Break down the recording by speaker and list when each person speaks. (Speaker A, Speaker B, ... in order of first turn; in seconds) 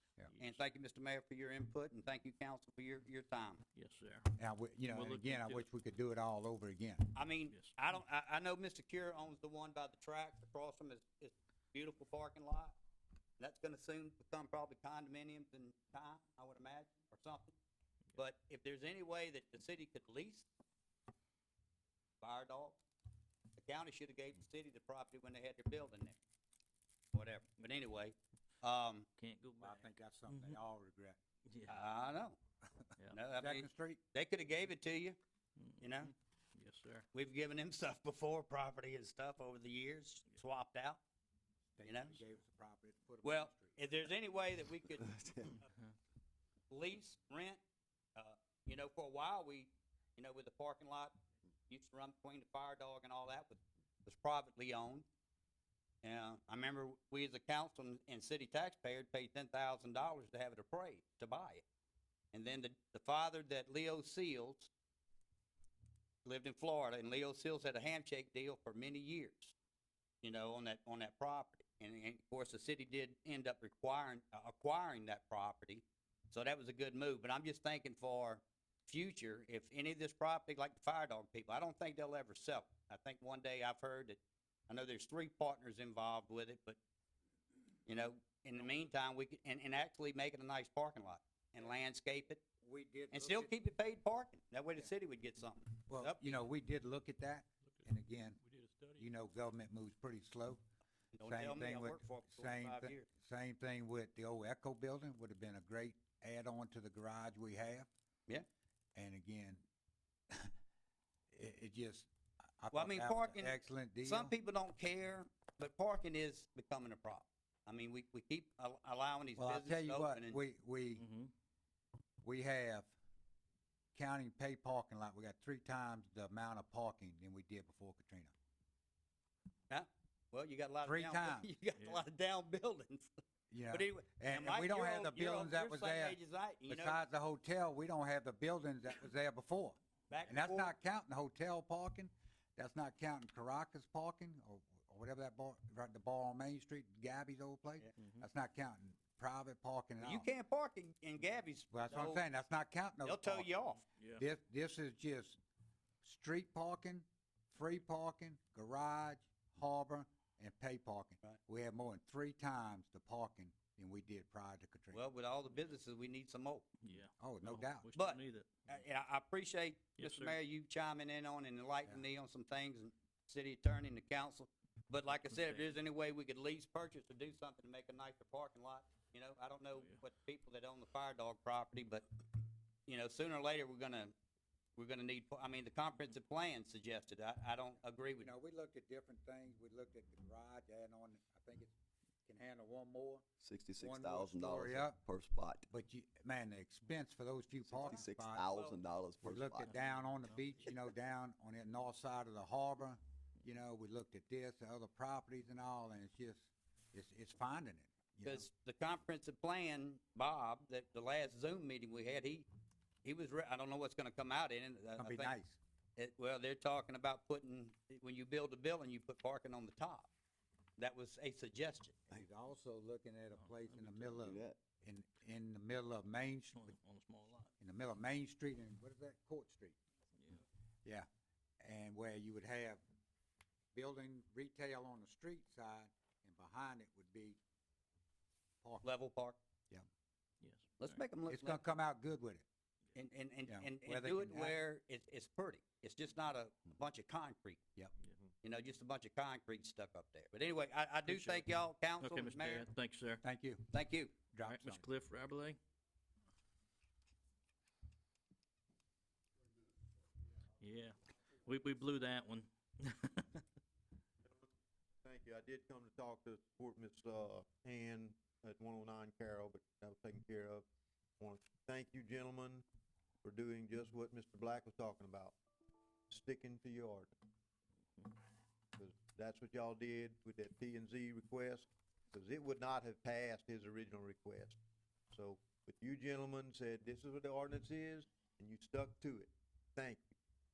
Speaker A: 0.3-0.6, 3.7-4.3, 4.9-5.6, 7.5-7.8, 29.2-30.6, 31.5-31.8, 35.6-37.0, 98.4-99.0, 121.0-121.3, 131.8-132.0, 154.0-154.2, 166.8-168.5, 170.0-170.4, 175.3-175.6, 179.7-180.0, 223.4-224.3, 226.5-227.5, 230.2-230.4, 240.4-241.0, 251.0-251.5, 252.0-253.2, 254.4-255.6, 260.6-263.4
Speaker B: 0.4-3.6, 7.1-12.8, 13.4-17.5, 18.2-20.5, 22.2-22.8, 23.6-26.2, 27.1-29.1, 31.7-32.4, 33.1-35.2, 35.8-36.1, 37.1-41.0, 41.8-42.2, 43.2-45.1, 46.7-47.6, 48.1-51.1, 51.7-55.1, 56.0-61.6, 62.3-64.7, 66.2-69.5, 70.2-86.8, 87.9-92.4, 93.1-96.5, 101.1-103.1, 112.7-120.4, 129.7-133.1, 133.7-137.0, 140.1-140.7, 150.0-152.2, 153.0-153.8, 164.9-166.7, 167.9-182.0, 182.9-184.1, 184.8-188.3, 197.7-198.8, 208.2-212.5, 213.0-215.3, 216.0-220.1, 220.8-222.2, 238.8-239.4, 240.8-241.7, 242.9-247.6, 248.4-252.7, 253.7-254.1
Speaker C: 4.4-7.1, 29.6-31.2, 33.3-34.0, 41.8-43.8, 92.6-93.5, 95.9-98.4, 99.0-100.6, 101.2-107.9, 108.9-109.7, 111.3-114.3, 119.4-121.1, 122.2-122.9, 123.9-128.3, 130.8-131.5, 133.5-136.2, 136.7-150.3, 151.7-153.5, 154.2-155.4, 156.0-165.0, 167.2-167.9, 188.2-193.3, 193.8-195.0, 195.7-198.5, 199.2-208.5, 215.0-215.6, 222.1-226.7, 227.6-229.8, 231.6-232.8, 233.7-237.4, 241.3-242.4, 243.5-244.6, 253.2-254.8
Speaker D: 45.0-45.5, 193.4-195.7, 197.8-199.8, 224.2-224.6
Speaker E: 264.2-264.5, 265.0-270.6, 271.2-272.6, 273.2-275.4, 276.1-277.1, 278.8-284.6, 285.1-290.1